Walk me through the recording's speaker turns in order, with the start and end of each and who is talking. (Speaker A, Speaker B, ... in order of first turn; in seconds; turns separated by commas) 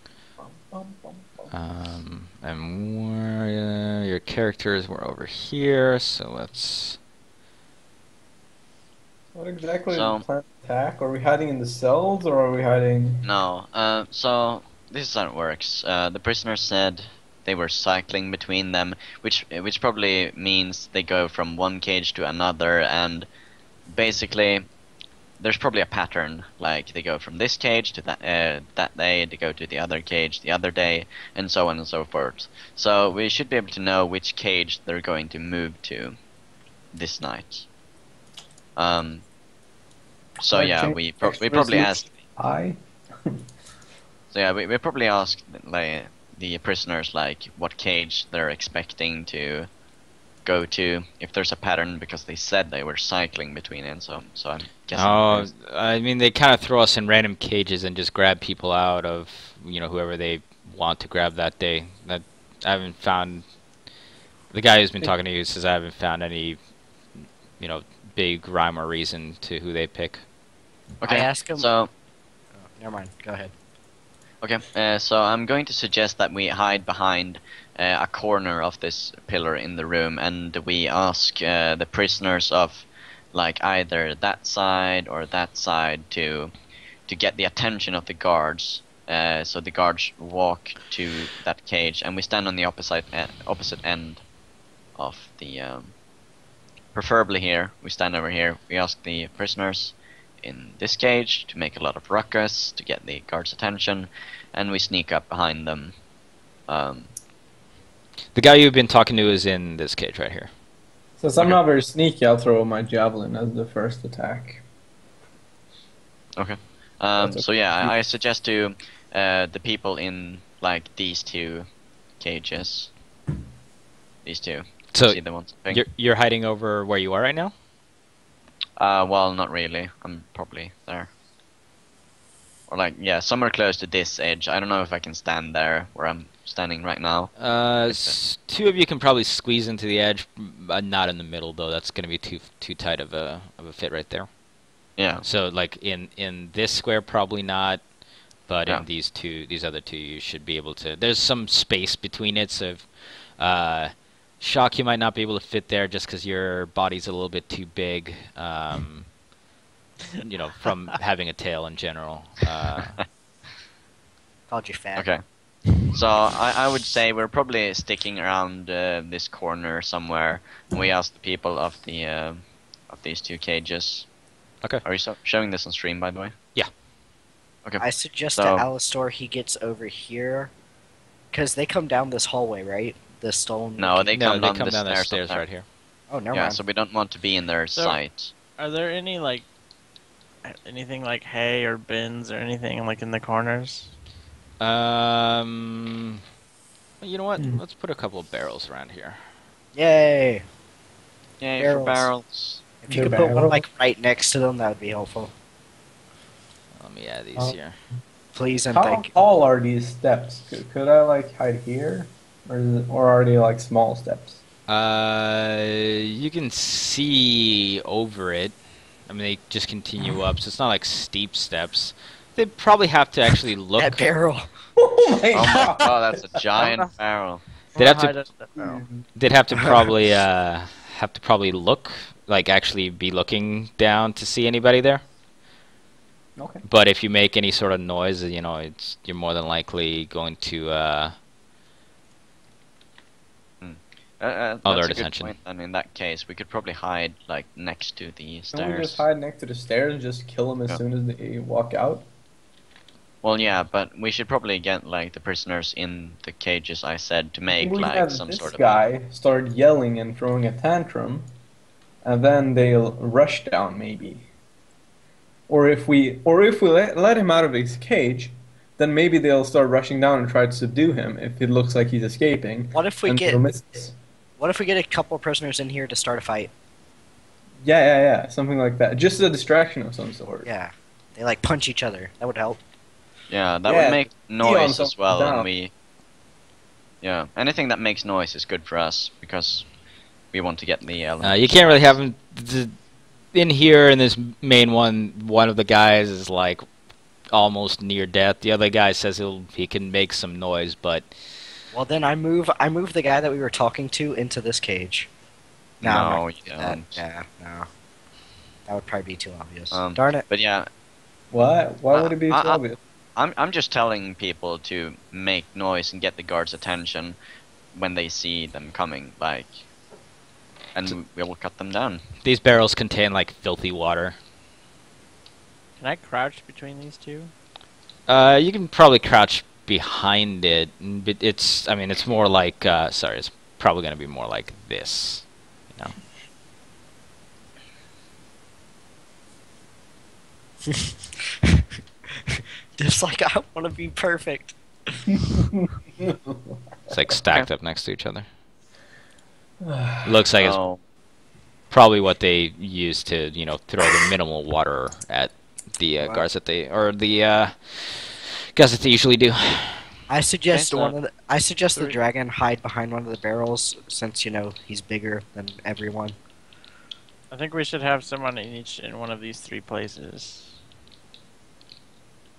Speaker A: 0.4-1.5, Speaker B: 1.5-7.0, Speaker A: 9.3-13.3, Speaker C: 9.9-10.2, Speaker C: 13.2-23.3, Speaker C: 23.9-24.7, Speaker C: 25.4-36.2, Speaker C: 36.9-37.7, Speaker C: 38.8-39.2, Speaker C: 40.4-42.1, Speaker A: 40.5-43.4, Speaker C: 44.3-49.7, Speaker C: 50.5-55.5, Speaker B: 54.9-63.5, Speaker B: 64.5-66.6, Speaker B: 67.2-70.2, Speaker C: 71.0-71.9, Speaker D: 71.1-71.7, Speaker D: 72.6-73.5, Speaker C: 74.4-86.5, Speaker C: 87.1-94.2, Speaker C: 95.0-95.9, Speaker C: 96.9-106.0, Speaker C: 106.7-107.1, Speaker B: 108.3-110.5, Speaker A: 111.2-114.6, Speaker C: 116.4-121.7, Speaker A: 117.2-118.0, Speaker C: 122.2-122.9, Speaker C: 124.2-125.8, Speaker B: 124.9-127.5, Speaker C: 128.8-131.1, Speaker C: 132.7-137.4, Speaker B: 137.4-144.3, Speaker C: 137.9-138.2, Speaker C: 145.0-145.2, Speaker B: 145.2-147.8, Speaker B: 148.5-159.1, Speaker B: 160.2-163.0, Speaker D: 164.5-165.1, Speaker C: 164.9-165.2, Speaker C: 165.8-174.1, Speaker C: 174.8-176.3, Speaker C: 177.7-178.7, Speaker D: 177.8-180.5, Speaker D: 181.3-184.1, Speaker C: 183.8-185.4, Speaker B: 184.2-185.7, Speaker D: 186.1-186.6, Speaker C: 186.3-188.3, Speaker E: 188.6-189.5, Speaker E: 190.4-193.9, Speaker B: 194.6-196.2, Speaker B: 197.0-199.2, Speaker A: 197.4-197.6, Speaker D: 199.7-200.4, Speaker C: 201.4-202.6, Speaker D: 201.6-202.1, Speaker D: 202.8-205.3, Speaker A: 202.9-203.6, Speaker B: 206.8-207.8, Speaker D: 208.3-209.1, Speaker A: 208.7-214.4, Speaker B: 214.7-224.1, Speaker D: 223.8-224.5, Speaker A: 224.8-226.0, Speaker C: 225.3-227.4, Speaker D: 225.4-225.7, Speaker E: 226.6-226.9, Speaker E: 227.8-228.8, Speaker B: 227.8-228.2, Speaker A: 228.6-229.1, Speaker B: 229.2-235.0, Speaker A: 236.4-236.6, Speaker B: 236.7-241.2, Speaker C: 243.6-249.0, Speaker B: 244.7-245.4, Speaker A: 248.5-252.1, Speaker C: 253.2-258.8, Speaker A: 257.5-261.3, Speaker A: 262.0-264.3, Speaker A: 265.5-273.9, Speaker D: 272.7-273.4, Speaker D: 274.4-276.5, Speaker A: 277.6-280.5, Speaker D: 280.4-282.6, Speaker C: 283.3-285.7, Speaker A: 283.7-285.5, Speaker C: 287.0-289.7, Speaker C: 290.3-292.0, Speaker B: 291.2-292.8, Speaker B: 293.3-296.6, Speaker B: 297.3-301.1, Speaker D: 301.7-305.1, Speaker C: 305.8-307.0, Speaker D: 305.8-307.7, Speaker D: 308.7-310.2, Speaker C: 309.7-310.7, Speaker A: 311.3-312.8, Speaker C: 311.9-312.6, Speaker C: 313.2-317.2, Speaker C: 317.7-319.6, Speaker C: 320.8-322.0, Speaker B: 322.2-324.2, Speaker E: 325.8-327.3, Speaker B: 328.1-336.0, Speaker D: 342.8-345.2, Speaker A: 346.0-346.6, Speaker B: 346.9-348.3, Speaker A: 349.6-350.1, Speaker B: 350.1-350.6, Speaker C: 350.4-350.8, Speaker B: 351.7-359.9, Speaker D: 360.1-366.2, Speaker C: 360.5-360.9, Speaker E: 367.3-370.6